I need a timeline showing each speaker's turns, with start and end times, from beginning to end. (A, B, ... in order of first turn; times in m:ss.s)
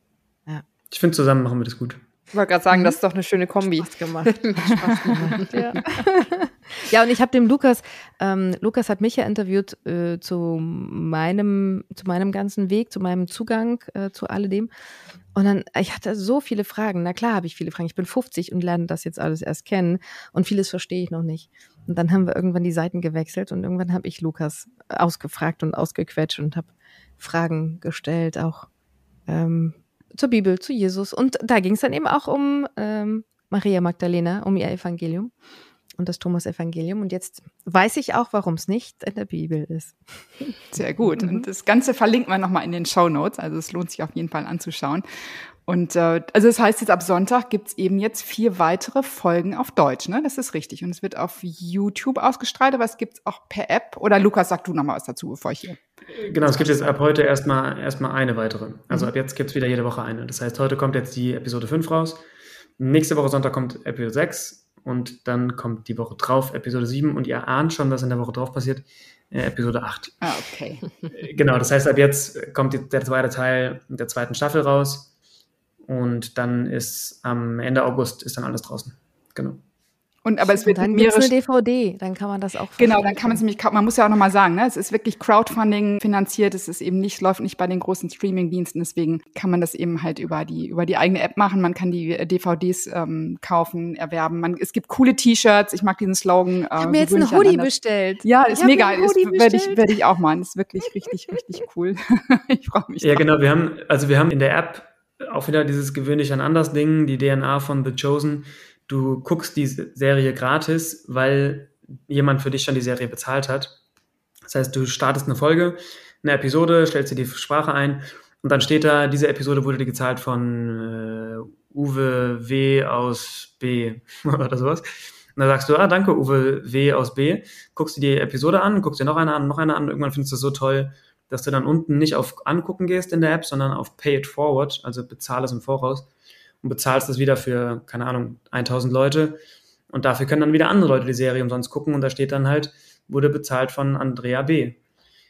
0:00.9-0:02.0 A
0:02.3-0:05.6 B
0:02.7-0:03.0 C
0:03.6-0:14.7 C
0:15.4-0:28.7 C
0:29.3-0:35.3 C
0:36.0-0:40.0 C
0:40.7-0:45.0 D
0:41.1-0:41.5 C
0:45.7-0:55.8 D
0:56.2-1:02.2 A
1:02.8-1:10.2 A
1:10.2-1:10.8 D
1:11.1-1:15.1 A
1:15.9-1:19.6 A
1:20.2-1:21.3 D
1:20.4-1:23.4 C
1:22.8-1:37.7 D
1:36.8-1:40.0 C
1:38.2-1:43.2 D
1:43.0-1:53.8 A
1:54.5-2:16.1 A
2:16.6-2:19.4 A
2:19.9-2:24.8 A